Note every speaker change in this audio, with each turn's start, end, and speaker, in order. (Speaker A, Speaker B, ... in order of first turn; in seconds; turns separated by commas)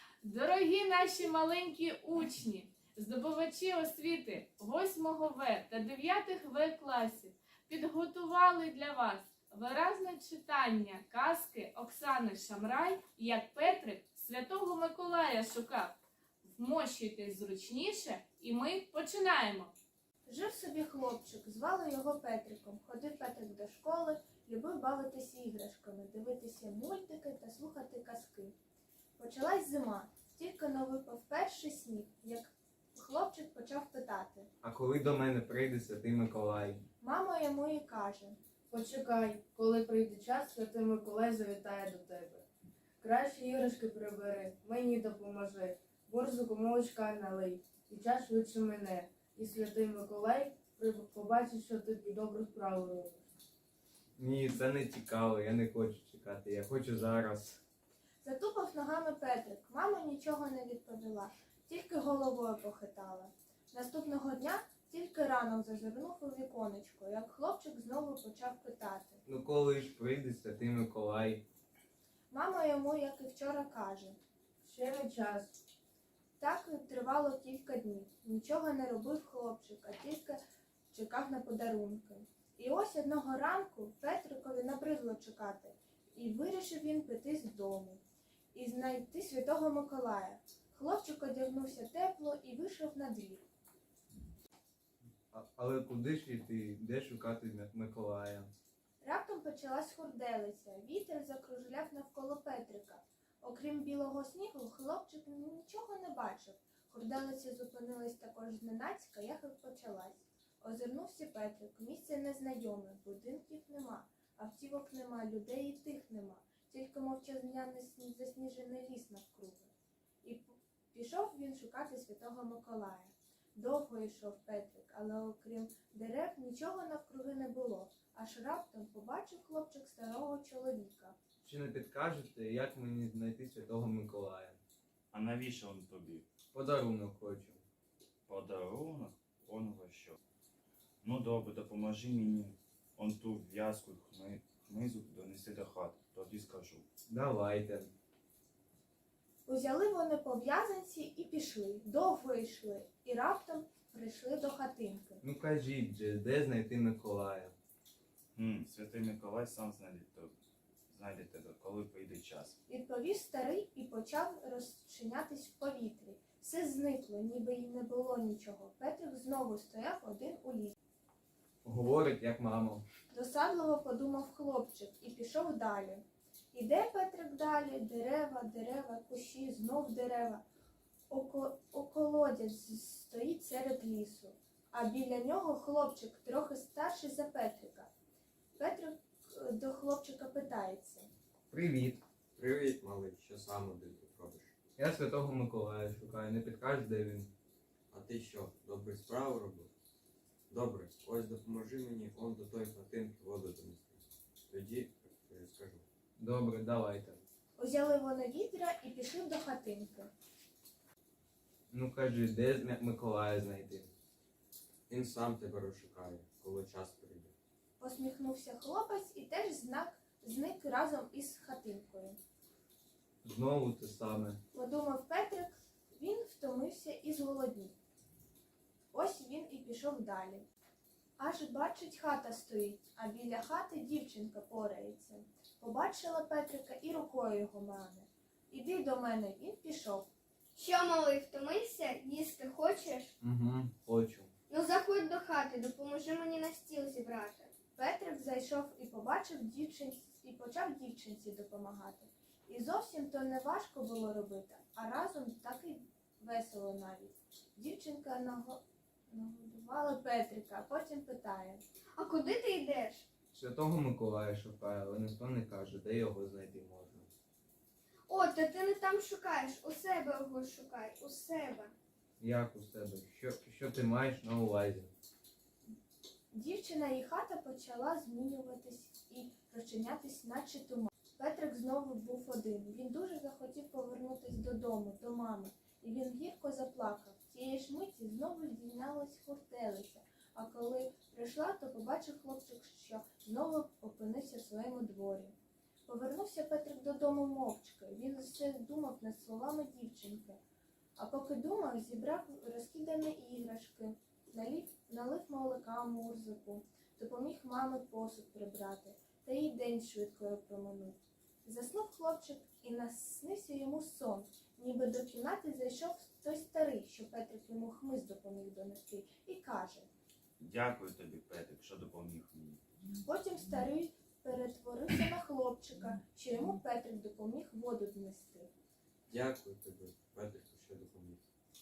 Speaker A: 0.2-19.7, Speaker B: 20.3-28.5, Speaker B: 29.2-34.5, Speaker C: 34.6-36.8, Speaker B: 37.0-38.4, Speaker D: 38.7-42.5, Speaker D: 43.0-53.2, Speaker C: 54.2-57.6, Speaker B: 58.2-69.2, Speaker C: 69.3-71.4, Speaker B: 72.3-74.2, Speaker D: 74.6-75.6, Speaker B: 76.4-80.4, Speaker B: 80.9-88.0, Speaker B: 88.5-93.4, Speaker C: 95.3-98.5, Speaker B: 99.0-119.7, Speaker B: 120.2-131.2, Speaker C: 131.4-134.6, Speaker E: 135.1-136.3, Speaker C: 136.5-137.6, Speaker E: 138.3-140.2, Speaker E: 141.0-146.8, Speaker C: 147.1-147.9, Speaker B: 149.5-155.2, Speaker C: 155.2-157.5, Speaker E: 158.3-160.3, Speaker E: 160.9-162.6, Speaker B: 162.7-170.8, Speaker C: 171.7-172.8, Speaker B: 173.1-180.4, Speaker B: 181.1-187.9, Speaker B: 188.6-191.1, Speaker C: 191.5-192.0, Speaker F: 192.3-194.5, Speaker C: 194.8-197.3, Speaker F: 197.9-199.7, Speaker F: 200.5-205.9, Speaker C: 206.2-207.2, Speaker B: 207.6-210.1, Speaker C: 211.7-213.9, Speaker F: 214.9-217.3, Speaker B: 217.8-222.2, Speaker C: 223.2-224.4, Speaker B: 224.5-227.8, Speaker B: 228.9-230.4, Speaker B: 231.2-240.1, Speaker G: 240.6-243.1, Speaker C: 243.2-244.3, Speaker G: 244.5-247.5, Speaker B: 247.8-261.6, Speaker G: 262.0-263.1, Speaker C: 263.3-267.1, Speaker G: 268.1-271.7, Speaker C: 272.2-274.9, Speaker B: 276.3-295.4, Speaker B: 295.9-300.4, Speaker B: 301.0-319.9, Speaker E: 320.4-322.6, Speaker B: 323.0-328.5, Speaker F: 329.1-331.2